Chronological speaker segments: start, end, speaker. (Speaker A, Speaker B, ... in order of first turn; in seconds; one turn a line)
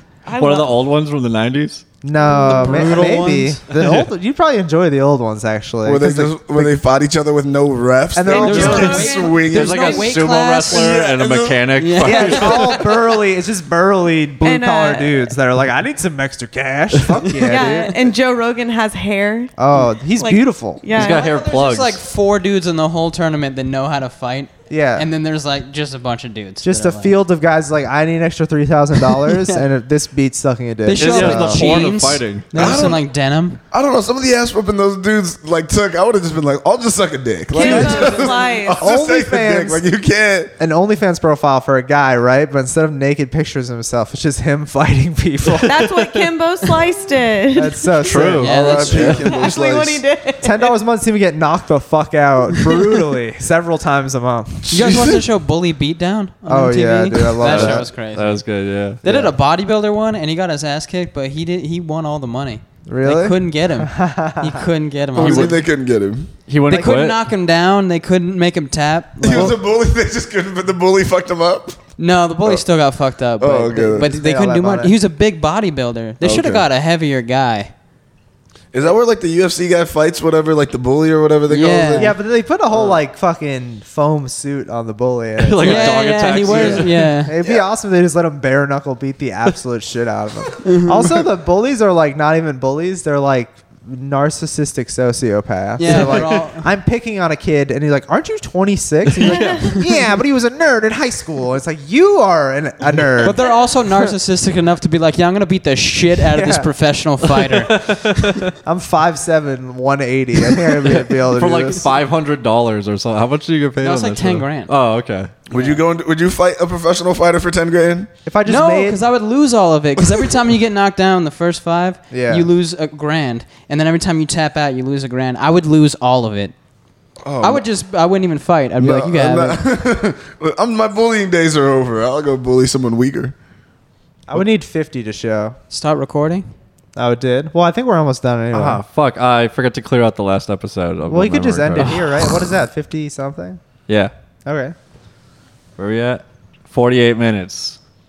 Speaker A: 0.2-0.8
Speaker B: 0.4-1.9
Speaker C: 2.0-6.8
Speaker A: 2.2-3.1
Speaker D: 2.3-3.6
Speaker B: 3.7-4.1
Speaker E: 5.8-11.6
Speaker C: 8.1-9.1
Speaker A: 8.3-10.1
Speaker D: 8.4-11.1
Speaker B: 8.4-12.7
Speaker D: 11.8-12.8
Speaker C: 12.0-17.9
Speaker A: 14.4-15.3
Speaker A: 17.4-21.4
Speaker C: 19.6-20.8
Speaker B: 20.9-22.0
Speaker D: 20.9-27.2
Speaker C: 24.7-25.1
Speaker C: 26.6-31.9
Speaker D: 30.8-33.6
Speaker B: 30.9-32.7
Speaker E: 32.5-33.0
Speaker E: 33.7-40.5
Speaker A: 37.5-38.8
Speaker C: 37.6-39.9
Speaker C: 40.6-45.8
Speaker B: 45.6-46.3
Speaker A: 45.6-48.0
Speaker C: 47.5-48.5
Speaker B: 48.0-49.2
Speaker D: 48.4-49.3
Speaker E: 48.4-50.0
Speaker A: 49.0-50.7
Speaker C: 50.4-54.7
Speaker E: 54.6-55.2
Speaker D: 54.7-58.5
Speaker C: 56.5-57.9
Speaker B: 57.4-59.0
Speaker D: 59.0-65.6
Speaker C: 59.0-59.3
Speaker C: 62.9-64.6
Speaker E: 65.1-66.3
Speaker B: 65.2-65.6
Speaker B: 66.5-67.2
Speaker D: 66.7-69.5
Speaker C: 66.7-67.0
Speaker E: 69.2-71.8
Speaker D: 72.0-77.7
Speaker E: 73.4-74.1
Speaker C: 74.0-74.9
Speaker E: 76.2-76.7
Speaker E: 78.7-82.2
Speaker D: 81.5-82.1
Speaker C: 82.0-103.6
Speaker B: 85.4-87.2
Speaker D: 85.6-87.3
Speaker D: 90.6-91.1
Speaker D: 95.8-96.7
Speaker B: 95.9-96.2
Speaker B: 99.1-99.8
Speaker A: 99.2-99.8
Speaker D: 103.2-108.2
Speaker C: 106.3-106.7
Speaker B: 107.5-108.5
Speaker C: 108.6-111.8
Speaker B: 110.9-115.3
Speaker D: 113.8-114.7
Speaker E: 115.5-118.1
Speaker D: 115.5-115.8
Speaker C: 118.2-119.0
Speaker D: 118.5-126.5
Speaker C: 122.1-122.5
Speaker E: 127.2-127.6
Speaker D: 127.4-129.6
Speaker E: 128.8-133.3
Speaker C: 134.3-135.6
Speaker D: 135.7-136.5
Speaker C: 136.9-138.8
Speaker B: 138.5-142.0
Speaker C: 141.1-143.6
Speaker D: 141.8-142.1
Speaker C: 144.4-144.7
Speaker B: 145.8-147.8